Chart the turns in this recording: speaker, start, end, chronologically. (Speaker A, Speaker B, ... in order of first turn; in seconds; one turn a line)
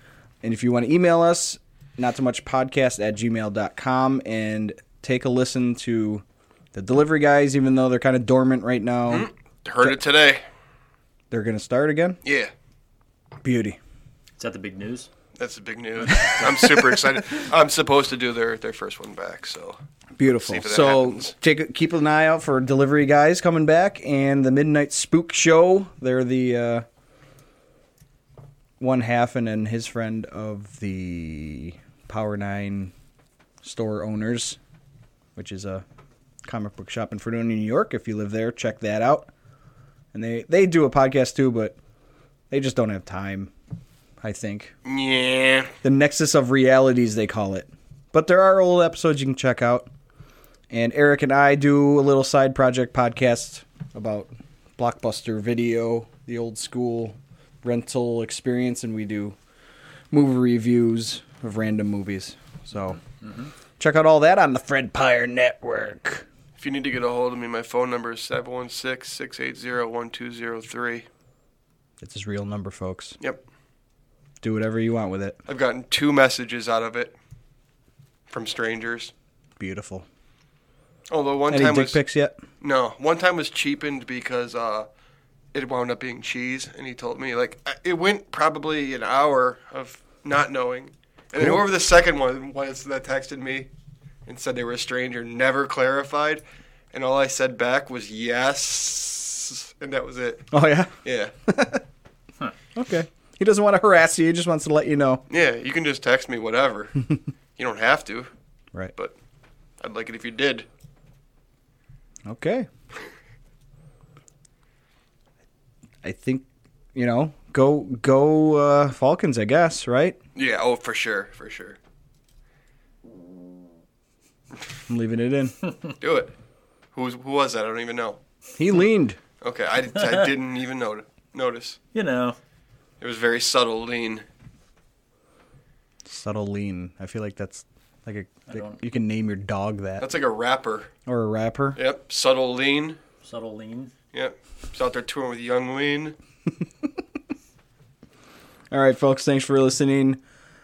Speaker A: 0.4-9.3
Speaker B: 9.1-10.4
Speaker A: 11.3-12.2
Speaker B: 12.2-12.5
Speaker A: 13.4-13.8
Speaker C: 14.4-15.1
Speaker B: 15.4-19.8
Speaker A: 16.4-17.0
Speaker A: 20.2-26.9
Speaker B: 20.3-21.3
Speaker A: 28.8-32.9
Speaker A: 33.6-34.6
Speaker A: 35.4-35.8
Speaker A: 36.4-39.3
Speaker A: 40.1-41.8
Speaker A: 42.5-43.5
Speaker A: 44.2-44.7
Speaker B: 44.9-45.7
Speaker A: 45.8-49.9
Speaker A: 50.7-59.4
Speaker A: 60.1-63.0
Speaker C: 63.2-63.5
Speaker A: 63.8-66.3
Speaker B: 66.6-71.1
Speaker A: 72.0-73.2
Speaker A: 74.4-75.4
Speaker B: 75.5-77.2
Speaker B: 78.3-79.1
Speaker A: 79.6-80.1
Speaker B: 81.1-82.0
Speaker A: 81.5-82.4
Speaker B: 82.6-84.9
Speaker B: 85.5-93.7
Speaker A: 91.4-91.6
Speaker B: 94.3-96.4
Speaker B: 96.9-100.5
Speaker A: 100.5-100.9
Speaker B: 101.0-101.3
Speaker A: 101.5-101.8
Speaker A: 102.8-105.2
Speaker B: 105.3-107.0
Speaker B: 107.6-108.3
Speaker B: 109.8-110.7
Speaker A: 112.3-112.7
Speaker A: 116.0-120.2
Speaker B: 120.3-121.8
Speaker A: 124.9-125.6
Speaker B: 126.0-126.3
Speaker B: 126.9-128.2
Speaker A: 128.6-129.2
Speaker B: 129.4-131.8
Speaker C: 131.9-132.4
Speaker B: 133.0-134.2
Speaker A: 136.1-140.1
Speaker C: 138.5-138.8
Speaker B: 140.0-140.9
Speaker A: 141.1-141.8
Speaker B: 141.8-143.0
Speaker C: 143.2-143.9
Speaker B: 144.1-146.2
Speaker A: 148.7-150.2